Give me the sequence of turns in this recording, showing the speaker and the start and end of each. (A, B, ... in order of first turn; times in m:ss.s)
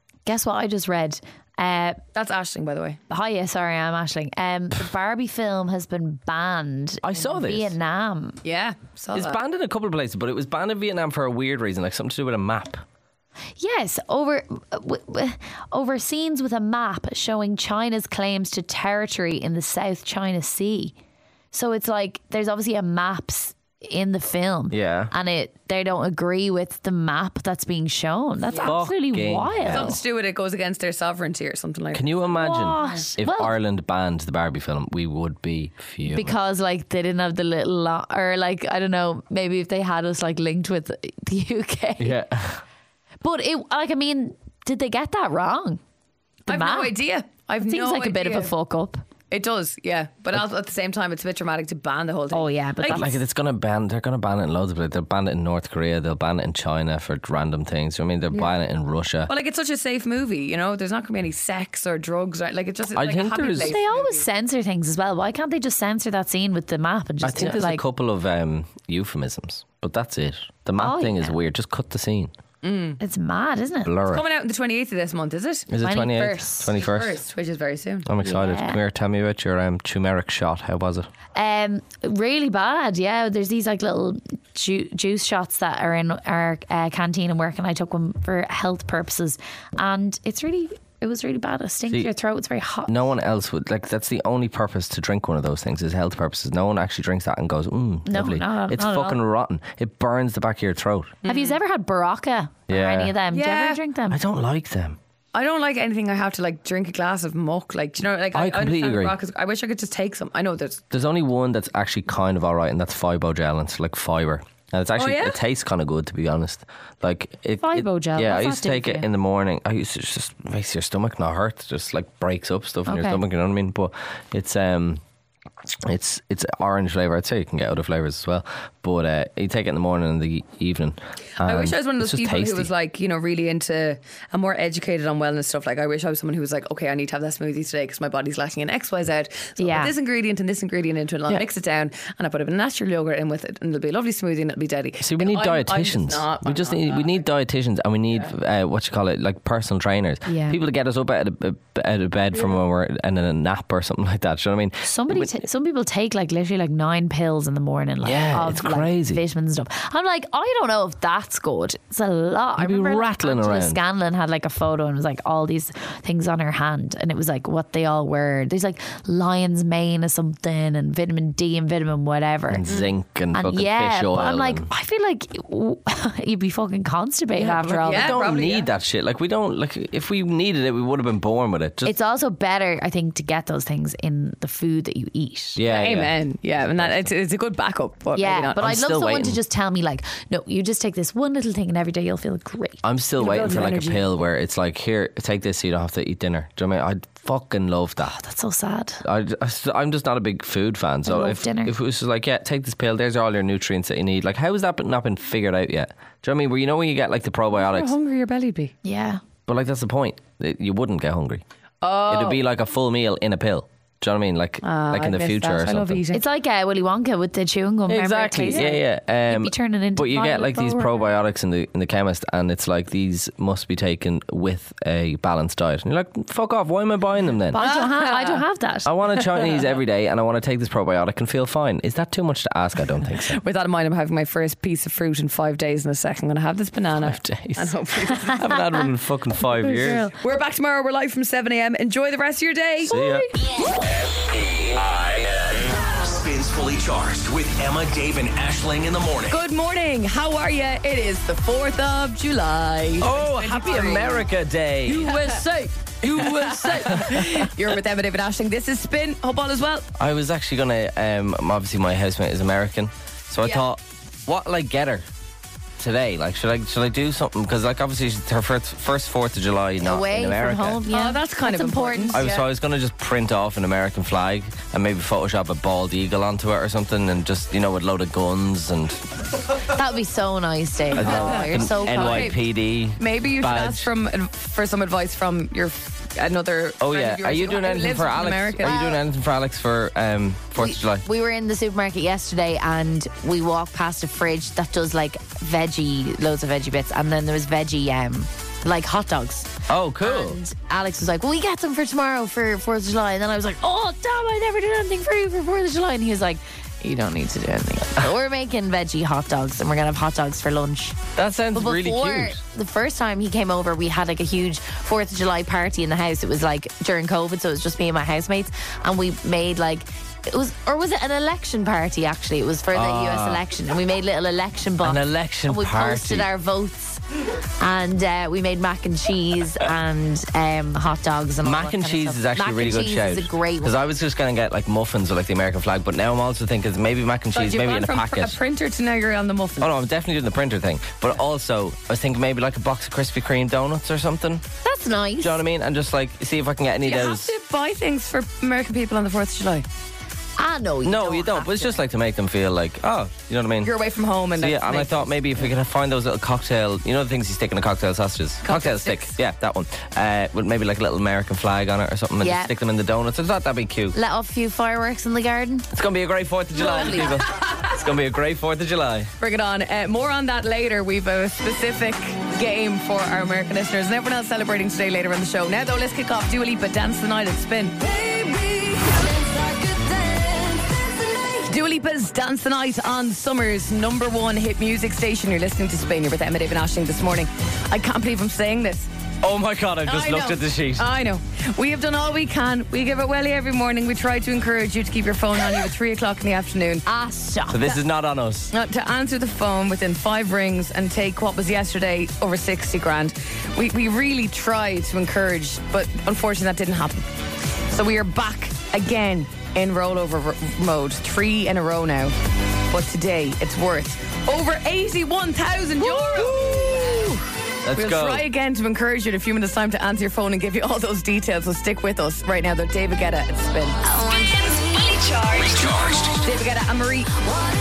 0:00.3-0:02.0 A
0:02.1-0:03.0 B
0:03.1-0:08.4 A
0:07.0-0:07.8 C
0:08.4-0:09.4 B
0:09.1-0:12.8 C
0:13.6-0:21.0 A
0:21.5-0:30.0 A
0:24.7-0:25.1 C
0:28.6-0:30.0 C
0:29.7-0:32.2 B
0:31.9-0:36.4 C
0:32.4-0:33.5 A
0:36.1-0:42.2 A
0:42.0-0:42.6 C
0:43.2-0:45.8 A
0:46.5-0:46.9 A
0:46.5-0:48.5 B
0:47.6-0:49.0 A
0:49.3-0:53.0 B
0:52.3-0:53.2 A
0:52.9-0:59.3 C
0:59.3-1:04.2 B
1:02.9-1:03.8 C
1:03.5-1:07.8 A
1:07.2-1:12.3 C
1:10.8-1:11.3 A
1:12.6-1:13.0 B
1:13.0-1:13.9 A
1:13.8-1:14.2 C
1:14.1-1:15.7 B
1:15.7-1:17.2 C
1:15.8-1:16.7 A
1:16.8-1:18.1 B
1:18.1-1:21.1 C
1:18.2-1:18.8 A
1:21.3-1:33.0 A
1:32.9-1:41.2 C
1:38.1-1:39.2 A
1:41.2-1:41.6 B
1:41.2-1:44.2 A
1:42.7-1:43.2 C
1:43.3-1:43.8 B
1:44.1-1:45.0 C
1:45.3-1:50.8 B
1:48.3-1:49.2 C
1:50.9-2:05.0 C
1:55.0-1:55.4 B
1:57.6-1:59.1 A
2:02.9-2:03.2 A
2:05.9-2:12.7 C
2:11.4-2:27.2 B
2:19.6-2:19.9 A
2:25.0-2:35.3 C
2:30.2-2:30.6 A
2:34.8-2:52.6 A
2:38.0-2:39.2 C
2:42.6-2:43.8 C
2:52.5-2:54.7 C
2:53.3-2:58.2 A
2:57.4-2:58.7 B
2:57.8-3:01.9 C
3:01.8-3:05.6 A
3:05.6-3:06.2 C
3:05.7-3:08.8 B
3:06.8-3:07.1 C
3:08.2-3:12.8 A
3:08.6-3:09.4 C
3:12.8-3:18.2 C
3:13.2-3:14.1 B
3:18.0-3:19.0 A
3:19.0-3:27.9 C
3:21.0-3:21.8 A
3:27.6-3:28.7 B
3:28.8-3:29.2 A
3:29.5-3:31.4 C
3:31.8-3:32.4 B
3:32.0-3:36.0 C
3:34.6-3:36.2 B
3:36.1-3:41.0 A
3:37.9-3:47.6 C
3:47.5-3:48.9 A
3:47.6-3:48.4 B
3:48.9-3:53.4 C
3:53.4-3:58.5 B
3:57.0-3:57.8 C
3:58.3-4:00.1 C
3:59.7-4:03.0 B
4:02.9-4:03.3 C
4:02.9-4:03.3 A
4:03.9-4:09.4 D
4:09.3-4:14.3 B
4:13.0-4:15.3 C
4:14.9-4:15.5 B
4:16.0-4:19.9 B
4:16.0-4:17.4 C
4:20.0-4:25.0 C
4:25.8-4:30.8 C
4:29.8-4:32.3 A
4:30.9-4:32.4 B
4:32.1-4:39.0 C
4:39.7-4:42.3 A
4:40.9-4:42.4 B
4:40.9-4:43.9 C
4:43.0-4:48.8 B
4:46.8-4:51.0 C
4:48.6-4:49.0 A
4:50.6-4:59.5 A
4:59.7-5:00.4 C
5:00.0-5:11.0 A
5:11.2-5:12.4 C
5:11.5-5:27.0 A
5:22.7-5:23.4 C
5:24.8-5:26.3 C
5:27.6-5:33.8 A
5:31.4-5:38.4 C
5:37.3-5:39.7 B
5:39.6-5:44.4 C
5:44.6-5:45.4 A
5:45.2-5:47.3 C
5:46.8-5:49.6 B
5:50.4-5:51.8 A
5:50.8-5:53.7 C
5:53.6-5:55.5 B
5:54.3-6:04.0 C
5:58.4-5:59.1 B
6:02.2-6:02.5 A
6:03.9-6:05.7 A
6:05.7-6:09.1 C
6:06.6-6:07.1 A
6:06.7-6:07.1 B
6:09.2-6:19.8 B
6:21.1-6:28.9 B
6:29.2-6:30.9 C
6:29.8-6:36.8 B
6:36.8-6:37.8 A
6:37.5-6:38.5 C
6:38.5-6:47.1 B
6:47.7-6:52.1 B
6:52.7-6:57.1 B
6:55.8-6:57.2 A
6:56.2-6:57.0 C
6:57.6-6:58.3 C
6:57.7-7:03.8 B
7:03.9-7:06.1 E
7:05.3-7:06.2 D
7:06.2-7:07.1 B